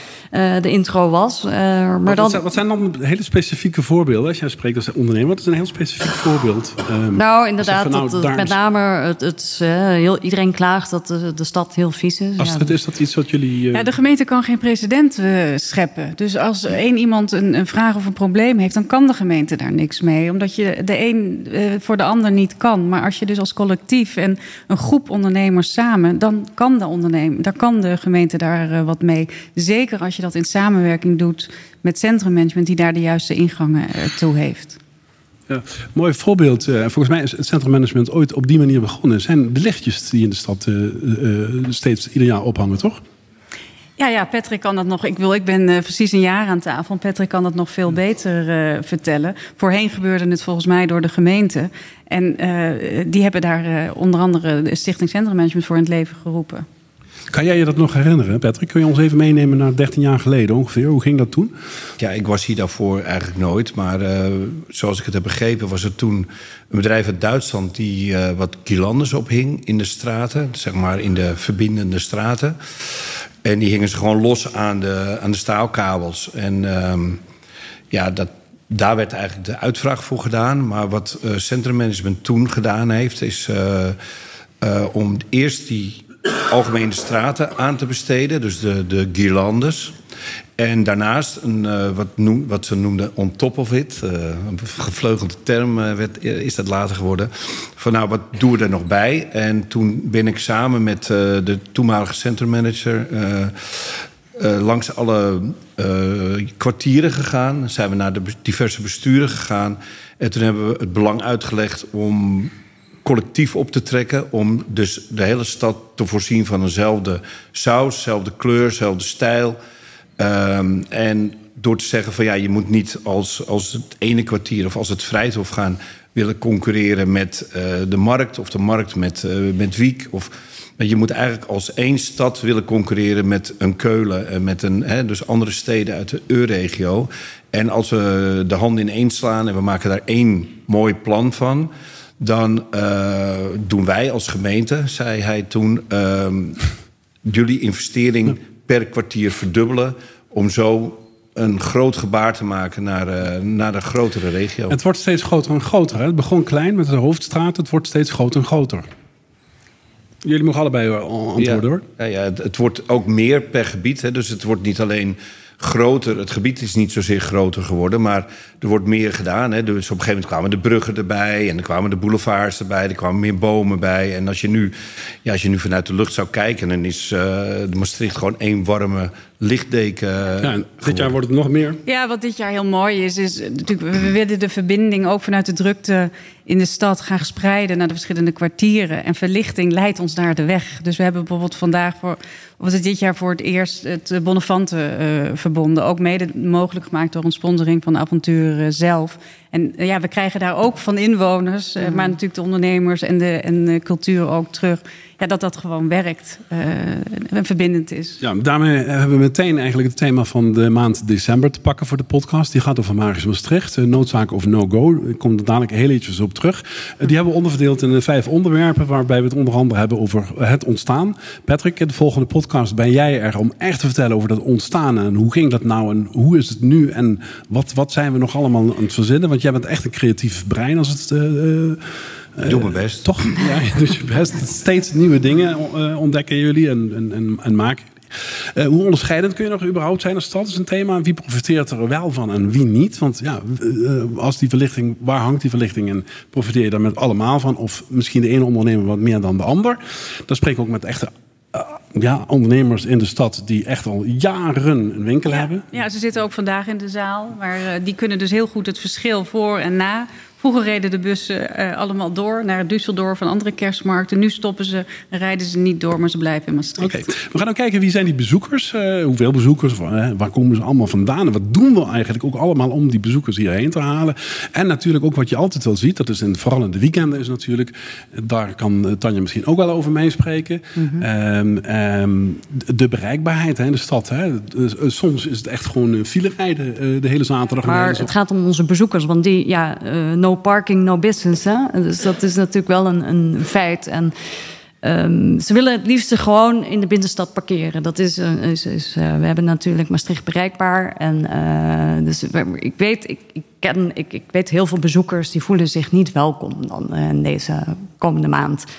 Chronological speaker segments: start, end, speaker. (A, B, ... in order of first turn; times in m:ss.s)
0:00.3-0:02.4 A
0:02.0-0:08.6 B
0:07.1-0:12.8 A
0:12.4-0:13.9 B
0:13.7-0:34.8 C
0:35.5-0:43.0 B
0:44.0-0:56.6 C
0:57.3-1:01.6 B
1:02.0-1:17.2 D
1:17.9-1:24.0 D
1:24.6-1:29.9 D
1:30.6-1:52.5 D
1:53.0-1:59.6 D
2:00.2-2:26.6 D
2:27.2-2:34.8 D
2:34.7-2:38.9 B
2:40.2-2:41.8 B
2:41.4-3:01.1 D
3:00.4-3:01.8 B
3:01.8-3:28.2 C
3:21.8-3:22.2 A
3:28.2-4:15.6 B
3:52.4-3:53.1 D
4:15.3-4:27.0 C
4:26.8-4:48.1 B
4:40.8-4:41.1 A
4:47.6-4:54.1 A
4:54.8-5:08.7 A